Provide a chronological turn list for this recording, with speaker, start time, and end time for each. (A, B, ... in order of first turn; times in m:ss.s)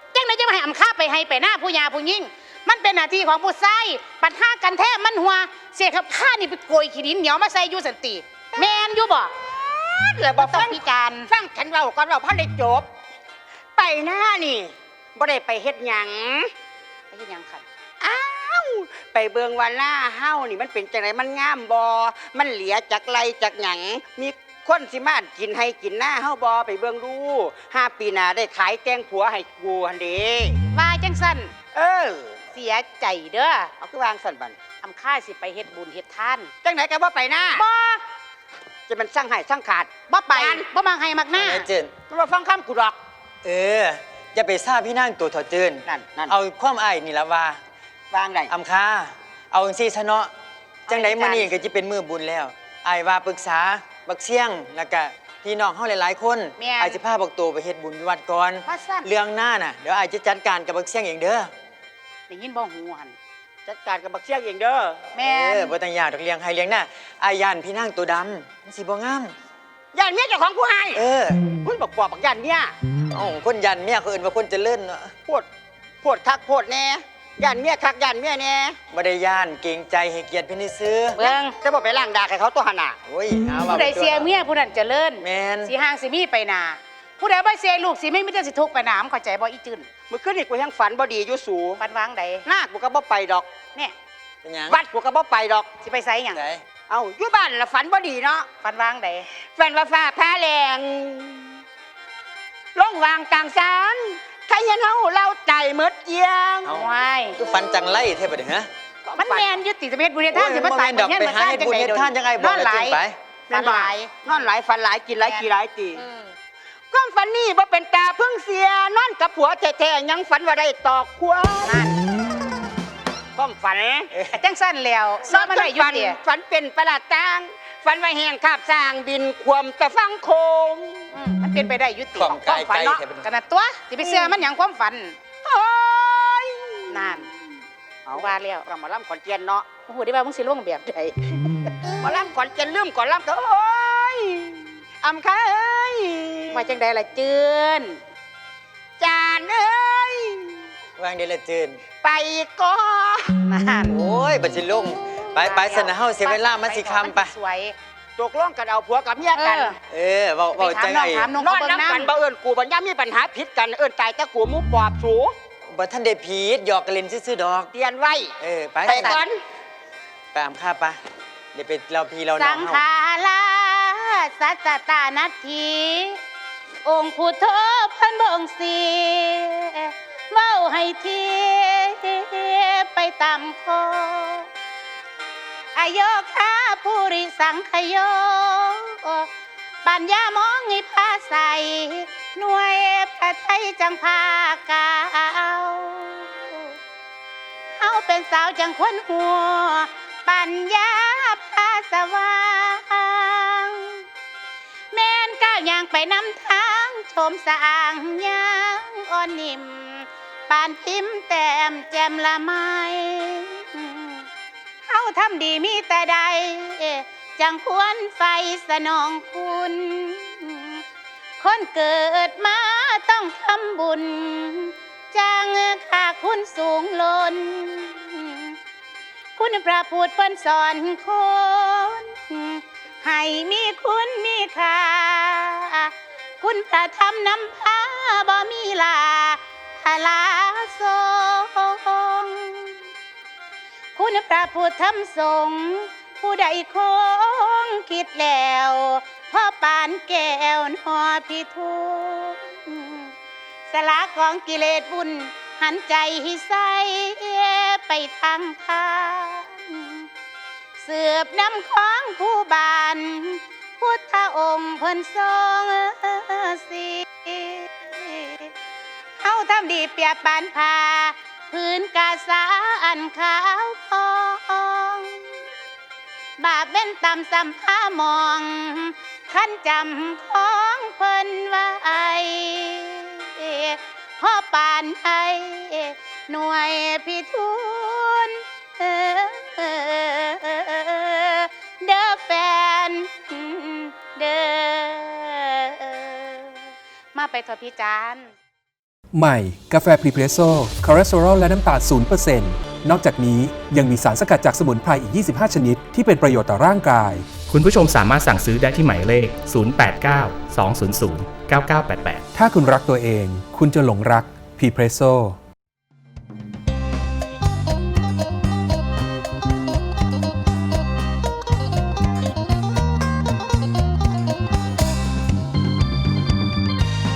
0:00.1-0:09.3 A
0:09.5-0:12.9 B
0:10.4-0:11.3 A
0:13.8-0:16.5 B
0:17.1-0:17.6 A
0:18.0-0:30.6 B
0:30.8-0:31.5 A
0:31.7-0:32.4 B
0:32.6-0:33.7 A
0:33.8-0:34.6 B
0:34.8-0:36.5 A
0:36.6-0:37.7 B
0:37.5-0:38.0 A
0:38.9-0:40.6 B
0:40.1-0:41.7 A
0:41.4-0:41.9 C
0:42.1-0:43.0 B
0:43.4-0:47.6 C
0:45.9-0:46.3 B
0:48.1-0:48.5 B
0:48.5-0:50.3 C
0:50.9-1:01.5 C
0:50.9-0:51.6 A
0:56.6-0:57.0 A
0:58.7-0:59.1 A
1:02.3-1:03.1 A
1:03.6-1:05.0 B
1:05.1-1:05.7 A
1:05.2-1:09.3 C
1:09.9-1:11.0 B
1:10.9-1:11.4 C
1:11.6-1:12.7 B
1:13.1-1:15.1 C
1:16.0-1:18.8 B
1:18.9-1:21.2 C
1:21.2-1:21.6 A
1:21.2-1:23.0 B
1:23.1-1:24.3 C
1:23.6-1:29.9 A
1:25.2-1:25.7 C
1:30.1-1:31.8 B
1:31.8-1:32.4 A
1:32.5-1:33.5 B
1:34.4-1:34.8 C
1:34.7-1:35.7 B
1:35.8-1:36.4 A
1:36.3-1:36.6 C
1:36.9-1:38.5 B
1:38.6-1:39.3 A
1:39.5-1:41.6 B
1:42.8-1:46.7 B
1:46.6-1:48.7 C
1:46.7-1:47.4 A
1:49.1-1:49.5 B
1:49.2-1:53.0 A
1:50.3-1:53.2 C
1:53.5-1:56.0 B
1:53.5-1:54.5 A
1:55.2-1:55.5 A
1:56.9-2:02.0 B
2:01.6-2:02.0 A
2:03.4-2:04.1 B
2:04.3-2:06.2 A
2:05.3-2:11.1 B
2:11.1-2:15.2 A
2:12.2-2:13.3 C
2:14.0-2:14.4 B
2:15.4-2:17.2 B
2:16.9-2:17.3 A
2:18.1-2:19.7 B
2:18.1-2:18.7 A
2:19.9-2:21.2 A
2:21.9-2:26.6 B
2:26.5-2:28.0 A
2:29.0-2:30.6 B
2:31.0-2:31.8 C
2:32.0-2:33.3 B
2:33.5-2:34.0 A
2:33.9-2:37.3 C
2:35.3-2:37.8 A
2:38.2-2:39.8 B
2:39.4-2:39.8 A
2:39.9-2:41.3 C
2:40.6-2:42.1 A
2:41.4-2:45.3 B
2:45.7-2:47.7 C
2:47.7-2:48.3 B
2:48.4-2:49.2 C
2:48.8-2:49.4 B
2:48.9-2:49.2 A
2:50.3-2:51.0 C
2:51.5-2:52.8 C
2:52.4-2:56.2 A
2:56.8-3:04.5 A
3:05.8-3:09.3 A
3:09.8-3:16.8 A
3:17.8-3:24.0 A
3:24.9-3:34.2 A
3:34.9-3:40.8 A
3:41.4-3:48.6 A
3:49.4-4:02.8 A
4:04.0-4:13.1 A
4:13.7-4:20.1 A
4:20.8-4:28.5 A
4:29.2-4:35.4 A
4:36.4-4:58.3 A
4:59.1-5:07.3 D
5:07.5-5:12.3 E
5:12.3-5:15.4 D